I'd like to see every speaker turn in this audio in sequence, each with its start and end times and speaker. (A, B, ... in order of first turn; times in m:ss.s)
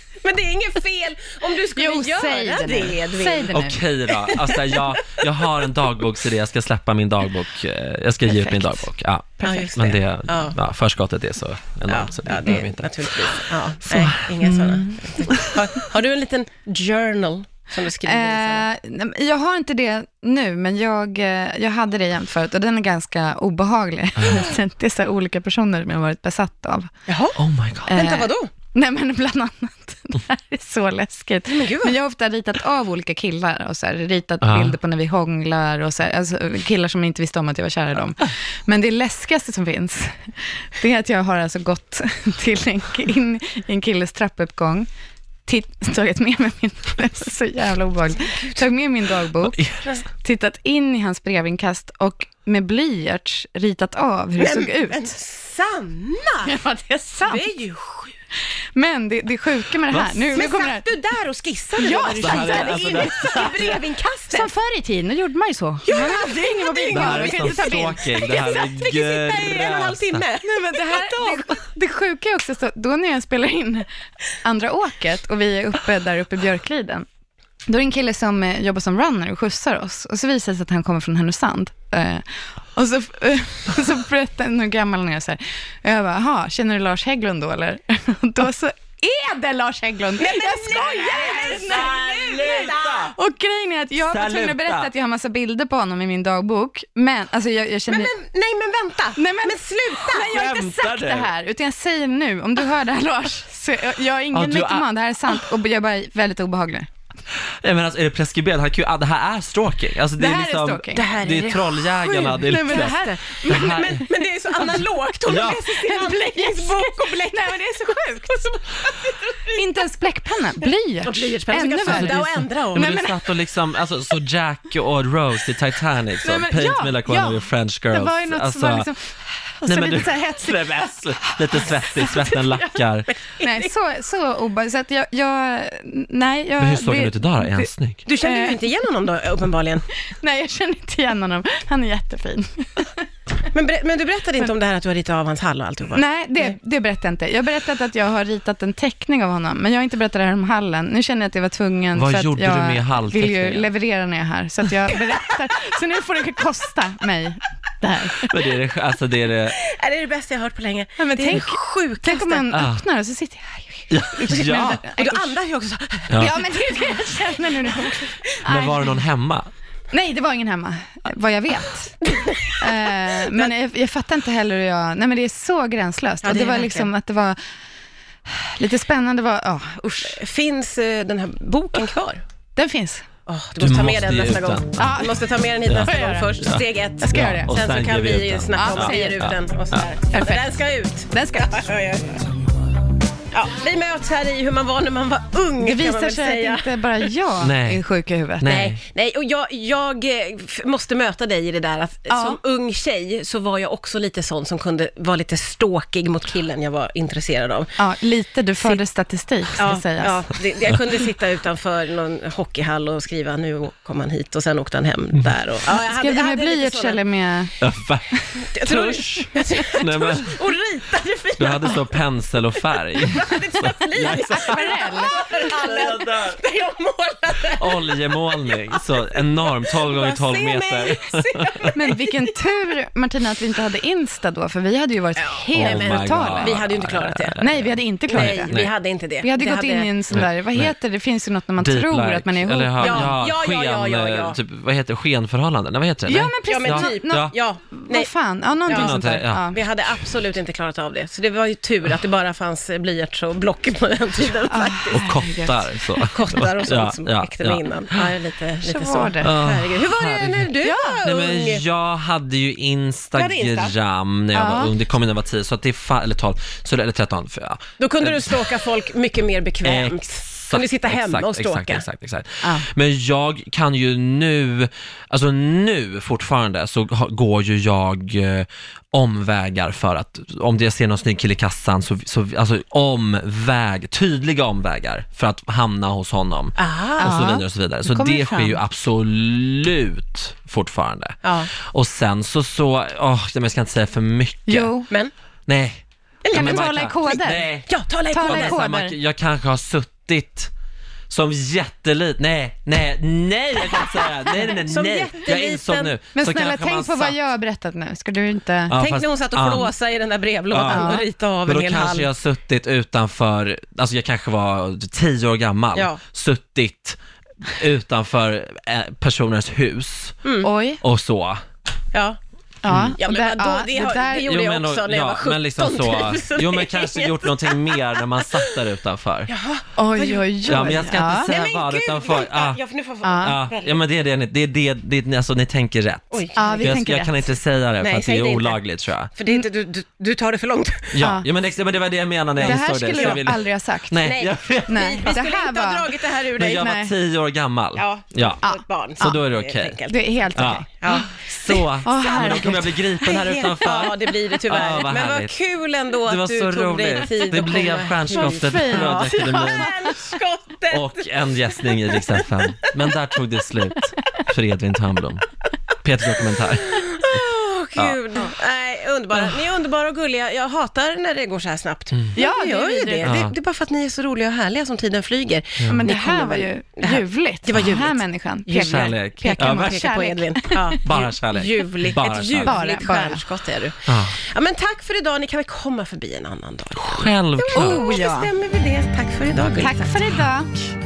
0:00.2-0:05.0 A
0:01.8-0:03.8 B
0:03.5-0:15.6 C
0:08.3-0:08.9 B
0:09.4-0:09.7 B
0:09.4-0:10.6 A
0:11.9-0:18.7 A
0:18.0-0:26.9 B
0:27.1-0:28.5 A
0:27.4-0:28.0 C
0:27.9-0:44.9 B
0:31.4-0:32.0 A
0:34.4-0:34.8 C
0:45.4-0:55.1 B
0:48.1-0:48.6 A
0:49.5-0:49.8 C
0:54.4-0:56.5 A
0:56.4-0:57.5 B
0:57.2-0:58.1 A
0:58.7-1:00.8 B
0:59.9-1:00.3 C
1:00.3-1:04.5 A
1:01.8-1:03.8 B
1:02.2-1:03.8 C
1:04.3-1:08.0 B
1:05.8-1:11.6 A
1:06.9-1:10.2 C
1:10.4-1:13.9 B
1:14.4-1:17.0 B
1:17.7-1:38.1 B
1:30.2-1:33.1 A
1:31.0-1:33.1 C
1:34.1-1:34.9 C
1:37.9-1:40.4 A
1:39.2-1:46.9 B
1:40.3-1:41.3 C
1:44.3-1:44.9 C
1:47.3-1:54.0 C
1:50.2-1:51.1 B
1:50.9-1:59.6 A
1:52.4-1:54.0 B
1:55.3-1:55.6 C
1:55.6-1:58.6 B
1:59.5-2:03.2 B
2:01.0-2:03.0 A
2:01.8-2:08.9 C
2:06.2-2:12.8 B
2:09.6-2:13.1 C
2:13.1-2:13.7 A
2:13.4-2:18.7 B
2:16.6-2:18.0 C
2:18.0-2:19.8 A
2:20.1-2:23.0 B
2:23.5-2:26.5 A
2:25.9-2:38.3 B
2:31.9-2:33.7 C
2:38.1-2:39.6 C
2:39.6-2:42.5 A
2:41.0-2:45.3 B
2:42.5-2:42.8 C
2:43.9-2:44.8 C
2:44.3-2:46.3 A
2:46.1-2:46.4 C
2:46.2-2:49.0 B
2:47.7-2:48.0 A
2:48.4-2:49.5 C
2:49.9-2:57.4 B
2:52.0-2:53.5 A
2:56.2-2:56.9 A
2:58.2-3:00.2 B
3:00.0-3:02.2 A
3:02.6-3:03.0 B
3:03.3-3:12.3 A
3:03.6-3:04.6 C
3:04.8-3:05.3 B
3:05.6-3:09.9 C
3:05.8-3:06.3 B
3:07.0-3:07.5 B
3:08.5-3:09.3 B
3:10.1-3:10.5 B
3:11.1-3:11.6 B
3:13.3-3:17.1 A
3:15.6-3:18.5 B
3:17.4-3:17.8 C
3:18.4-3:18.8 C
3:18.4-3:27.7 A
3:22.1-3:22.4 B
3:27.8-3:30.3 B
3:29.6-3:37.0 A
3:35.7-3:37.6 B
3:37.6-3:38.1 C
3:38.1-3:39.4 B
3:38.5-3:41.9 A
3:38.6-3:40.4 C
3:41.4-3:46.4 C
3:43.1-3:52.5 A
3:44.3-3:45.2 B
3:47.5-3:51.7 C
3:51.7-3:56.6 B
3:55.2-3:57.4 A
3:55.5-3:58.7 C
3:57.4-3:58.6 B
3:58.1-4:00.0 A
3:59.2-4:03.2 B
4:00.1-4:00.7 C
4:01.6-4:07.3 C
4:02.8-4:04.4 A
4:06.0-4:09.6 B
4:06.5-4:08.1 A
4:08.6-4:15.1 A
4:08.7-4:09.5 C
4:14.5-4:16.1 B
4:14.9-4:18.1 C
4:16.1-4:21.6 A
4:18.6-4:19.3 B
4:19.2-4:28.5 C
4:20.6-4:21.0 B
4:23.1-4:23.7 A
4:24.3-4:24.7 B
4:27.8-4:31.8 A
4:29.6-4:54.7 C
4:32.4-4:32.7 B
4:46.6-4:47.2 A
4:47.0-4:48.6 B
4:51.2-4:51.5 A
4:54.5-4:54.9 B
4:55.5-4:57.7 C
4:56.2-4:58.6 A
4:56.3-4:57.5 B
4:58.1-4:58.9 B
4:58.2-5:00.5 C
5:01.1-5:07.2 C
5:04.4-5:05.9 A
5:06.1-5:08.8 B
5:08.7-5:09.7 C
5:08.7-5:12.1 A
5:10.5-5:20.2 C
5:10.7-5:11.0 B
5:15.7-5:16.0 A
5:20.2-5:20.5 A
5:20.4-5:20.8 B
5:20.8-5:21.4 C
5:21.9-5:22.2 A
5:22.6-5:24.4 B
5:22.6-5:23.0 C
5:23.0-5:28.6 A
5:24.2-5:29.3 C
5:29.3-5:33.8 A
5:29.8-5:31.3 B
5:30.4-5:32.6 C
5:33.0-5:33.4 B
5:33.2-5:39.1 C
5:36.1-5:36.8 A
5:36.4-5:37.3 B
5:37.8-5:38.6 A
5:39.2-5:41.0 A
5:40.9-5:45.1 C
5:41.0-5:41.3 B
5:42.4-5:44.1 B
5:42.4-5:43.2 A
5:44.0-5:46.8 A
5:44.7-5:45.9 B
5:46.4-5:48.4 C
5:46.5-5:46.9 B
5:47.8-6:02.2 A
5:48.4-5:49.2 B
5:49.0-5:49.8 C
5:49.9-5:51.1 B
5:50.3-5:55.4 C
5:51.8-5:52.8 B
5:56.0-5:59.9 C
5:58.1-5:59.9 B
6:00.7-6:05.2 C
6:05.8-6:07.2 C
6:06.6-6:30.0 A
6:09.1-6:09.4 C
6:12.1-6:13.1 B
6:13.0-6:13.3 C
6:15.7-6:20.8 B
6:18.6-6:19.8 C
6:20.8-6:22.6 C
6:22.4-6:23.2 B
6:23.9-6:24.2 C
6:26.7-6:27.9 C
6:27.5-6:28.3 B
6:29.6-6:30.7 B